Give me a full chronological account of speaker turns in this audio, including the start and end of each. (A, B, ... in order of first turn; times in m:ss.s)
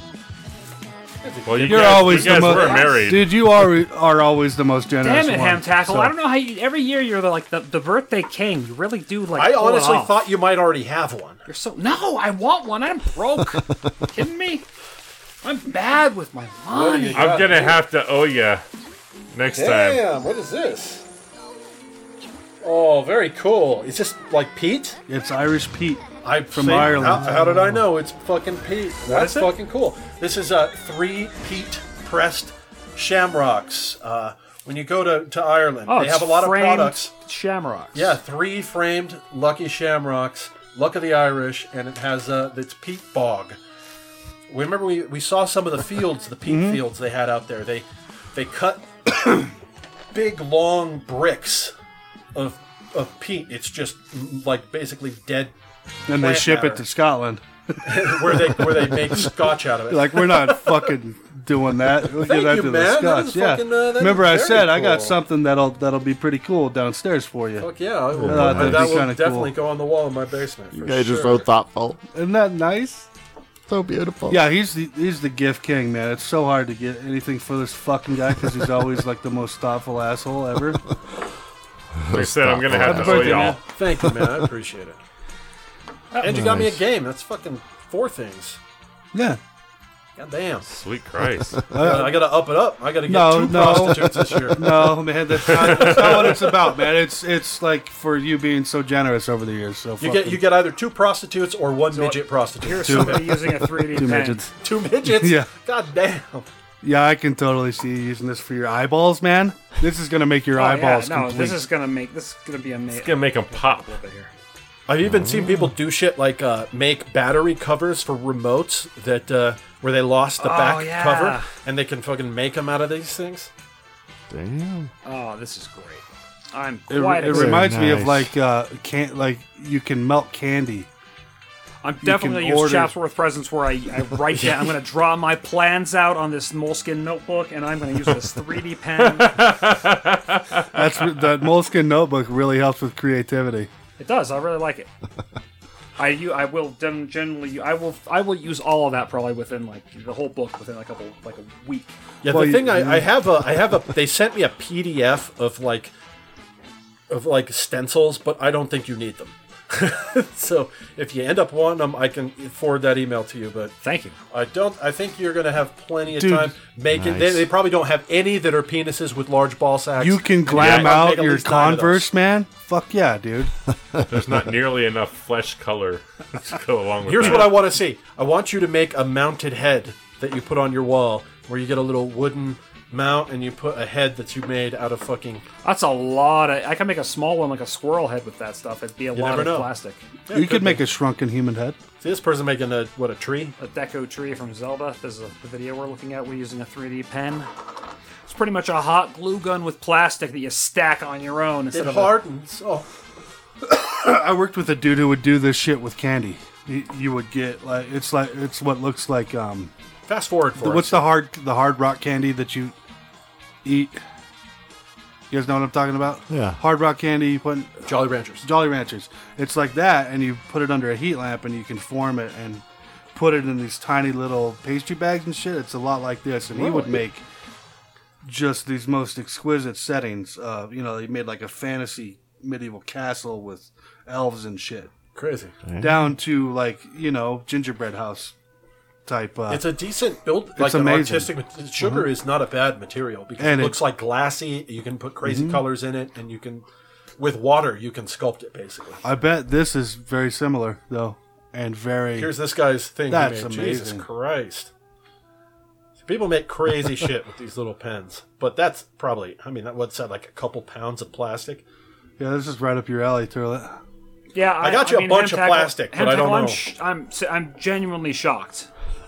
0:01.2-0:03.1 A
0:01.5-0:03.3 B
0:01.6-0:06.1 C
0:02.6-0:02.9 D
0:05.0-0:10.2 D
0:09.4-0:11.4 A
0:11.5-0:14.6 D
0:15.4-0:17.2 D
0:16.7-0:17.8 A
0:17.2-0:18.6 B
0:19.3-0:20.0 B
0:19.5-0:21.0 A
0:22.6-0:25.0 A
0:25.1-0:27.4 C
0:26.2-0:37.1 A
0:27.3-0:27.7 E
0:29.1-0:29.5 D
0:35.9-0:38.2 D
0:37.9-0:43.6 A
0:44.5-0:49.4 A
0:46.5-0:46.8 C
0:50.1-0:51.7 A
0:52.4-0:55.5 A
0:56.1-0:59.4 C
0:56.1-0:56.8 A
0:57.8-1:00.9 A
0:59.9-1:07.7 C
1:02.1-1:05.2 A
1:07.6-1:11.5 A
1:08.2-1:09.0 E
1:08.2-1:09.5 C
1:10.7-1:12.0 E
1:12.2-1:13.1 C
1:13.7-1:14.5 E
1:14.3-1:20.8 C
1:22.0-1:23.6 E
1:22.1-1:23.6 B
1:22.8-1:23.6 C
1:23.5-1:25.0 A
1:26.1-1:26.4 D
1:26.2-1:28.6 A
1:26.3-1:26.8 E
1:29.1-1:29.4 C
1:30.2-1:30.7 A
1:30.7-1:31.6 B
1:31.7-1:32.4 C
1:31.8-1:35.0 A
1:33.1-1:40.4 C
1:35.5-1:36.4 B
1:35.6-1:36.3 A
1:40.0-1:43.5 A
1:41.9-1:44.4 D
1:42.8-1:44.5 C
1:44.6-1:46.5 A
1:45.0-1:45.5 C
1:46.8-1:51.6 C
1:50.5-1:54.3 D
1:52.9-1:53.8 B
1:54.9-2:03.5 A
1:55.0-1:55.7 E
2:00.4-2:01.5 D
2:04.3-2:04.9 E
2:05.0-2:07.7 D
2:06.9-2:10.9 C
2:07.3-2:08.3 E
2:11.8-2:19.4 D
2:12.0-2:13.0 C
2:14.4-2:14.7 A
2:19.0-2:21.1 B
2:20.7-2:23.7 C
2:24.0-2:24.9 D
2:26.0-2:32.0 D
2:32.2-2:35.9 A
2:32.2-2:33.2 C
2:37.1-2:43.8 A
2:43.8-2:44.2 D
2:44.3-2:52.1 A
2:46.1-2:46.6 C
2:46.9-2:47.5 E
2:50.0-2:53.5 C
2:50.5-2:51.1 B
2:54.1-2:57.7 B
2:57.0-3:05.4 A
3:05.6-3:10.1 D
3:09.1-3:09.7 A
3:10.3-3:10.8 A
3:10.3-3:11.8 C
3:12.0-3:13.6 A
3:13.6-3:17.5 D
3:18.3-3:22.2 D
3:21.7-3:22.9 A
3:23.6-3:29.7 C
3:30.1-3:31.1 A
3:30.6-3:32.7 C
3:33.6-3:34.0 C
3:35.3-3:37.8 C
3:36.3-3:36.6 E
3:37.9-3:38.5 A
3:38.4-3:47.2 C
3:46.5-3:47.0 D
3:48.2-3:54.9 C
3:55.2-3:55.6 A
3:55.7-3:56.0 E
3:55.8-3:58.3 C
3:59.1-3:59.7 C
3:59.5-4:06.7 A
4:00.6-4:02.1 C
4:03.4-4:03.8 C
4:05.2-4:05.6 C
4:07.2-4:09.0 A
4:09.0-4:12.3 C
4:12.2-4:14.7 A
4:13.1-4:14.1 C
4:16.0-4:21.6 A
4:22.2-4:23.8 C
4:24.4-4:28.7 D
4:24.6-4:26.6 A